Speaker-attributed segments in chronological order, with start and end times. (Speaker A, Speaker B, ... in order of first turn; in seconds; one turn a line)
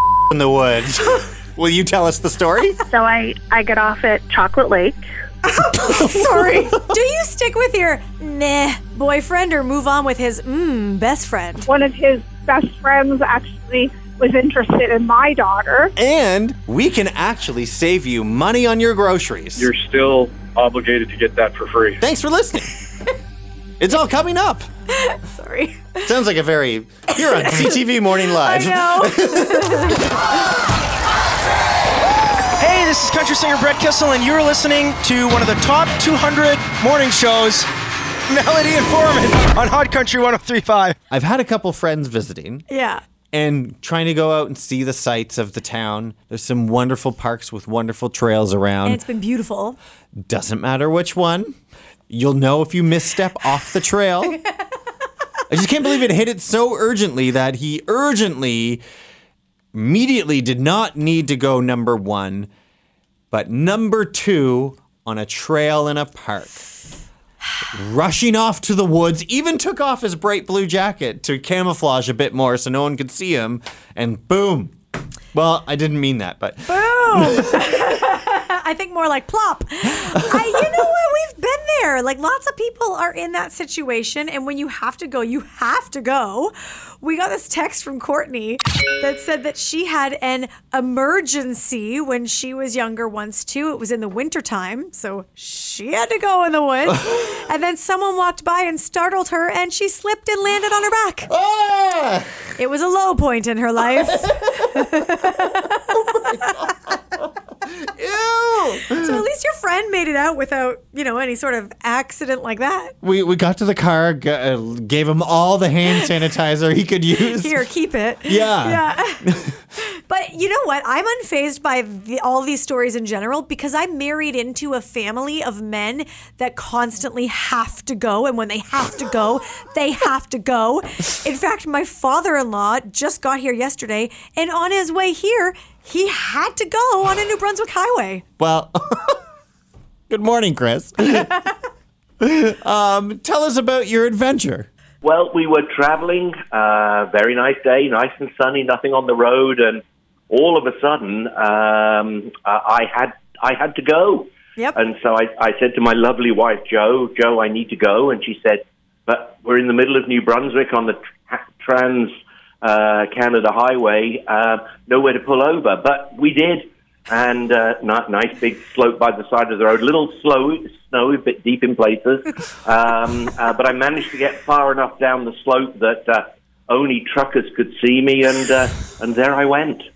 Speaker A: 0.3-2.8
Speaker B: 2.9-5.0
Speaker C: 5.6-11.7
Speaker A: 5.8-6.6
Speaker D: 11.7-15.9
Speaker A: 16.0-19.7
Speaker E: 19.6-22.0
Speaker A: 22.0-22.7
Speaker A: 23.8-24.7
Speaker C: 24.9-26.0
Speaker A: 26.1-30.2
Speaker C: 27.4-27.8
Speaker C: 28.4-30.1
Speaker F: 32.6-37.7
Speaker F: 38.3-41.0
Speaker A: 41.1-42.6
Speaker C: 42.7-43.0
Speaker A: 43.3-49.0
Speaker C: 48.9-49.8
Speaker A: 50.2-51.6
Speaker A: 52.1-54.4
Speaker A: 55.5-58.8
Speaker A: 59.7-62.5
Speaker A: 63.3-66.6
Speaker A: 67.7-74.7
Speaker A: 75.3-77.7
Speaker C: 76.7-101.3
Speaker A: 80.1-80.6
Speaker A: 101.3-102.4
Speaker C: 102.6-106.2
Speaker A: 103.9-104.5
Speaker A: 106.2-106.6
Speaker A: 107.7-109.2
Speaker C: 108.9-113.0
Speaker A: 113.0-117.6
Speaker C: 117.2-119.3
Speaker A: 118.3-119.5
Speaker C: 120.1-138.2
Speaker A: 138.4-139.2
Speaker A: 140.1-141.3
Speaker A: 142.2-144.7
Speaker G: 145.0-179.9